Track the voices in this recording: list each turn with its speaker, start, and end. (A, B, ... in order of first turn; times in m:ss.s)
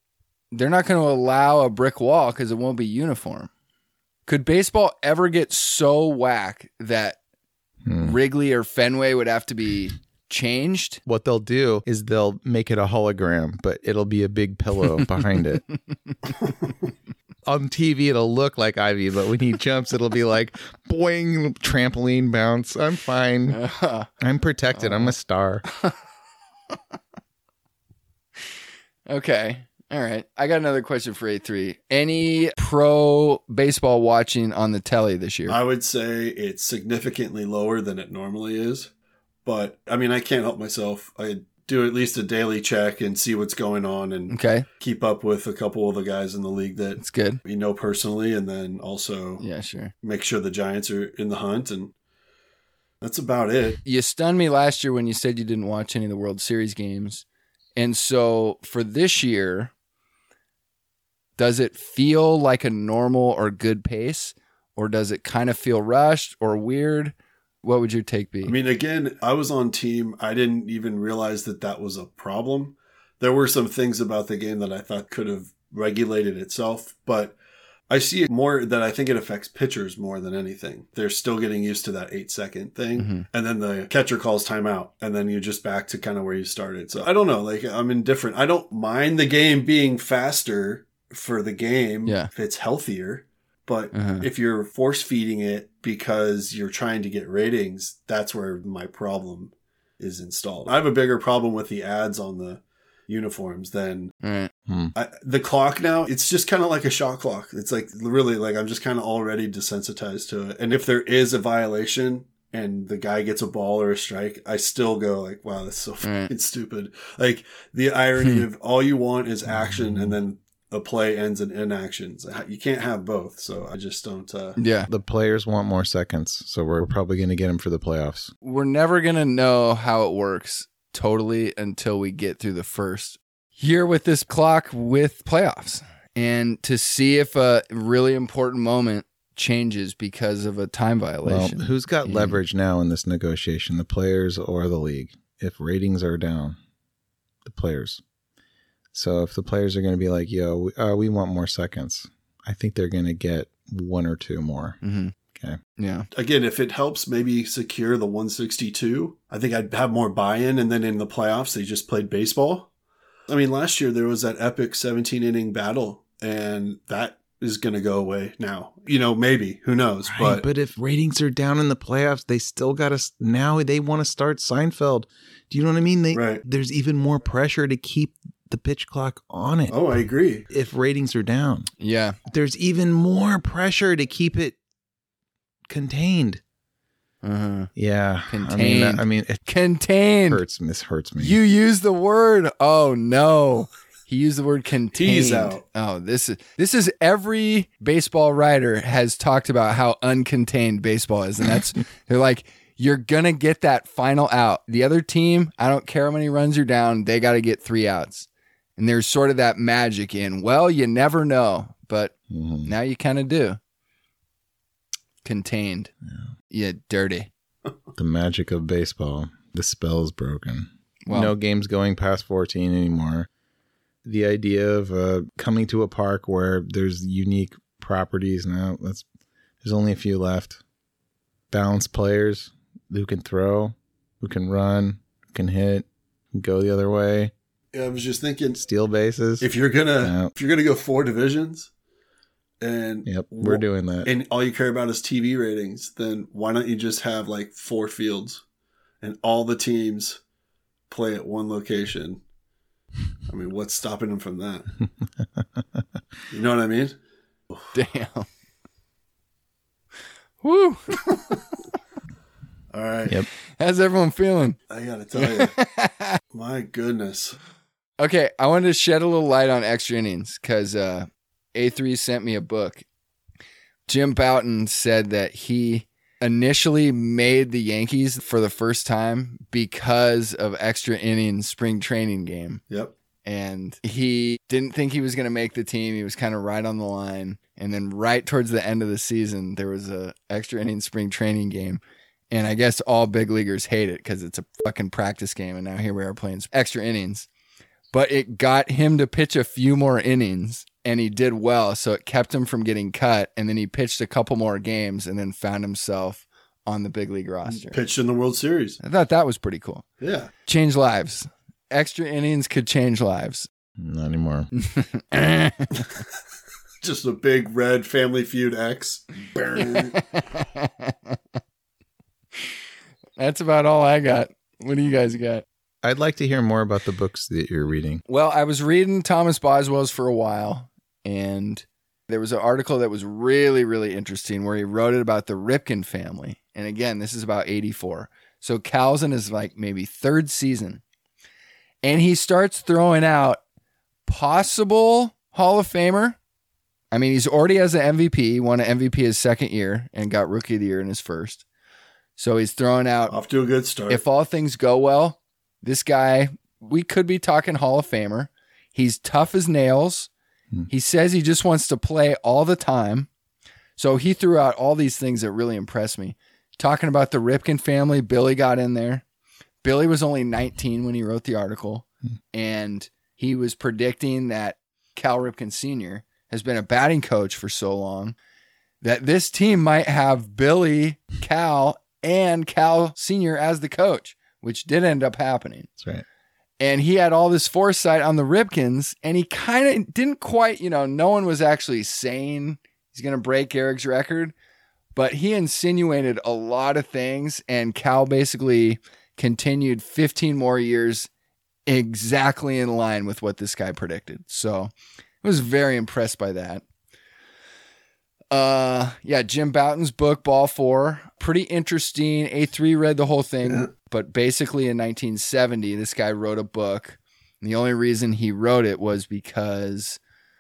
0:00.5-0:03.5 A
0:04.3-0:07.2 A
0:07.9-0:08.2 B
0:08.0-0:11.0 A
0:11.1-0:15.6 B
0:14.9-0:15.1 A
0:17.5-0:23.6 B
0:23.5-0:24.1 A
0:24.2-0:25.6 B
0:24.7-0:25.1 A
0:29.1-0:35.6 A
0:35.5-0:38.9 C
0:39.5-0:49.4 C
0:44.3-0:44.7 A
0:47.0-0:47.4 A
0:49.4-0:49.9 A
0:50.0-0:51.9 C
0:53.0-0:53.8 C
0:53.8-0:57.2 A
0:57.8-0:59.7 A
1:01.4-1:08.6 A
1:08.4-1:17.4 C
1:17.9-1:44.1 C
1:23.0-1:23.3 A
1:32.1-1:32.3 A
1:33.9-1:34.3 A
1:44.2-1:44.5 A
1:44.7-1:44.9 B
1:45.0-2:04.6 C
1:56.0-1:56.3 A
1:58.2-1:58.5 A
2:04.6-2:04.9 A
2:04.9-2:08.3 B
2:08.4-2:22.4 A
2:21.2-2:26.6 B
2:27.4-2:28.0 B
2:28.9-2:34.8 B
2:34.8-2:35.1 A
2:35.8-2:36.1 A
2:36.1-2:42.7 C
2:43.3-2:50.4 C
2:50.1-2:59.8 B
2:56.1-2:56.4 C
2:59.7-3:00.5 C
3:00.5-3:01.7 B
3:01.8-3:02.2 A
3:02.3-3:04.6 B
3:05.7-3:06.4 B
3:07.2-3:07.7 A
3:07.8-3:09.4 B
3:08.3-3:10.4 A
3:10.3-3:11.4 B
3:11.2-3:33.6 A
3:15.0-3:15.6 C
3:32.3-3:32.7 B
3:35.2-3:35.9 A
3:36.5-3:37.3 A
3:38.0-3:43.3 B
3:41.1-3:41.3 A
3:44.0-3:49.0 B
3:49.6-3:50.6 B
3:51.5-3:57.3 B
3:57.7-3:58.6 C
3:58.6-3:59.5 B
3:59.4-4:01.7 C
4:00.0-4:00.3 B
4:02.6-4:08.4 C
4:03.1-4:04.1 B
4:09.0-4:10.2 C
4:10.9-4:12.2 C
4:13.3-4:14.7 C
4:15.2-4:15.8 B
4:16.3-4:17.0 C
4:17.7-4:18.3 A
4:20.4-4:21.0 A
4:22.7-4:23.2 C
4:23.6-4:24.6 A
4:24.7-4:25.6 C
4:25.2-4:26.2 A
4:26.3-4:27.4 C
4:28.0-4:32.8 A
4:33.9-4:42.6 A
4:43.2-4:57.3 A
4:57.9-5:07.8 A
5:07.5-5:08.8 C
5:08.8-5:09.8 A
5:10.0-5:10.3 C
5:10.4-5:13.5 A
5:13.8-5:14.5 B
5:14.6-5:15.9 A
5:16.8-5:20.0 C
5:19.6-5:21.2 A
5:23.2-5:25.4 A
5:25.8-5:28.0 B
5:28.1-5:40.8 A
5:41.8-5:43.4 A
5:44.1-5:46.2 A
5:46.9-5:51.4 A
5:52.2-5:53.2 A
5:53.1-5:54.0 C
5:53.9-6:00.1 A
6:00.7-6:03.1 A
6:03.8-6:09.0 A
6:09.6-6:18.2 A
6:18.8-6:25.7 A
6:25.8-6:26.0 B
6:26.6-6:34.3 A
6:35.0-6:41.1 A
6:41.7-6:46.6 A
6:48.3-7:00.0 A